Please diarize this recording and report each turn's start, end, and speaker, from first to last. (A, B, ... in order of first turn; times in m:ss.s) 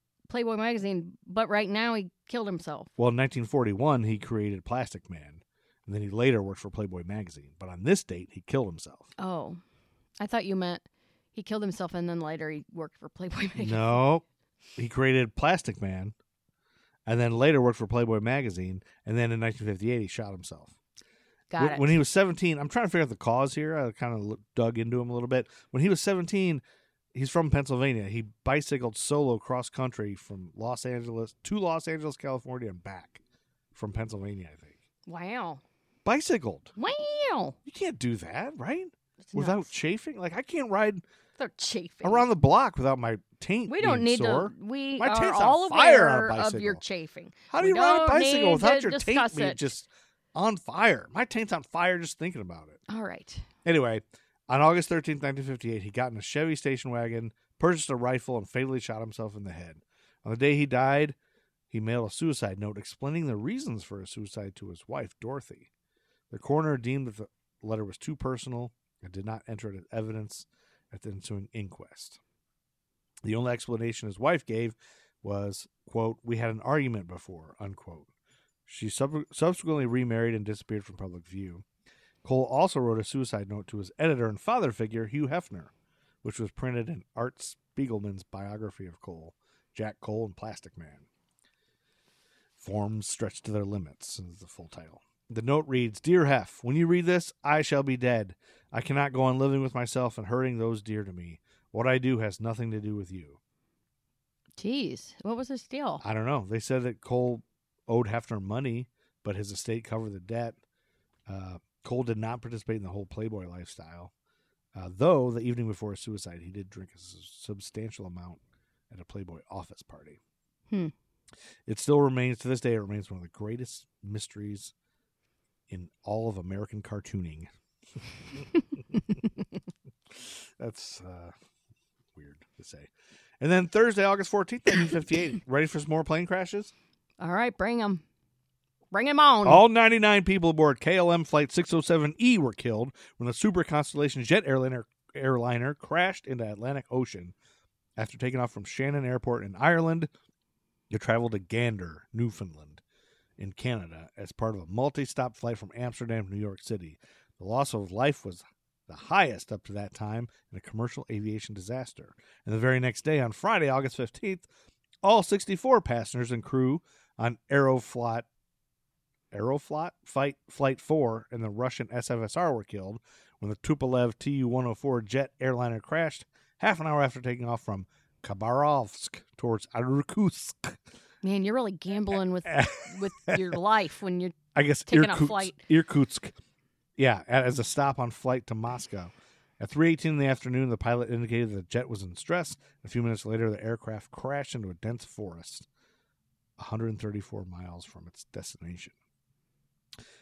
0:00.3-0:02.9 A
0:03.0-0:09.1 B
0:09.2-0:09.6 A
0:10.2-0:10.8 A
0:11.4-0:14.0 A
0:13.6-0:14.2 B
0:14.8-0:16.1 B
0:17.1-0:20.8 B
0:21.5-0:22.0 A
0:21.6-0:26.6 B
0:27.1-0:33.2 B
0:33.7-0:34.8 B
0:35.1-0:35.6 A
0:36.0-0:36.7 B
0:36.8-0:37.6 A
0:37.7-0:41.0 B
0:39.3-0:39.7 A
0:41.4-0:42.3 A
0:42.0-0:46.8 B
0:43.7-0:49.7 A
0:47.5-0:52.8 B
0:52.9-0:53.5 A
0:53.6-1:01.2 B
1:01.7-1:05.7 B
1:06.3-1:12.2 B
1:13.2-1:18.1 B
1:18.7-1:21.6 B
1:22.2-1:25.7 B
1:26.2-1:31.1 B
1:32.6-1:43.4 B
1:44.6-1:46.0 A
1:46.0-1:50.6 B
1:51.3-1:54.1 B
1:54.8-2:00.2 B
2:01.7-2:04.7 B
2:05.7-2:07.5 B
2:10.1-2:11.3 B
2:12.2-2:16.7 B
2:17.2-2:18.0 A
2:18.9-2:19.6 A
2:19.4-2:27.4 B
2:28.0-2:30.1 B
2:30.9-2:32.8 B
2:33.4-2:44.5 B
2:45.0-2:48.3 B
2:49.3-3:00.8 B
3:01.2-3:04.4 A
3:02.4-3:03.6 B
3:04.6-3:06.4 B
3:04.9-3:05.6 A
3:07.0-3:15.7 B
3:16.6-3:18.9 B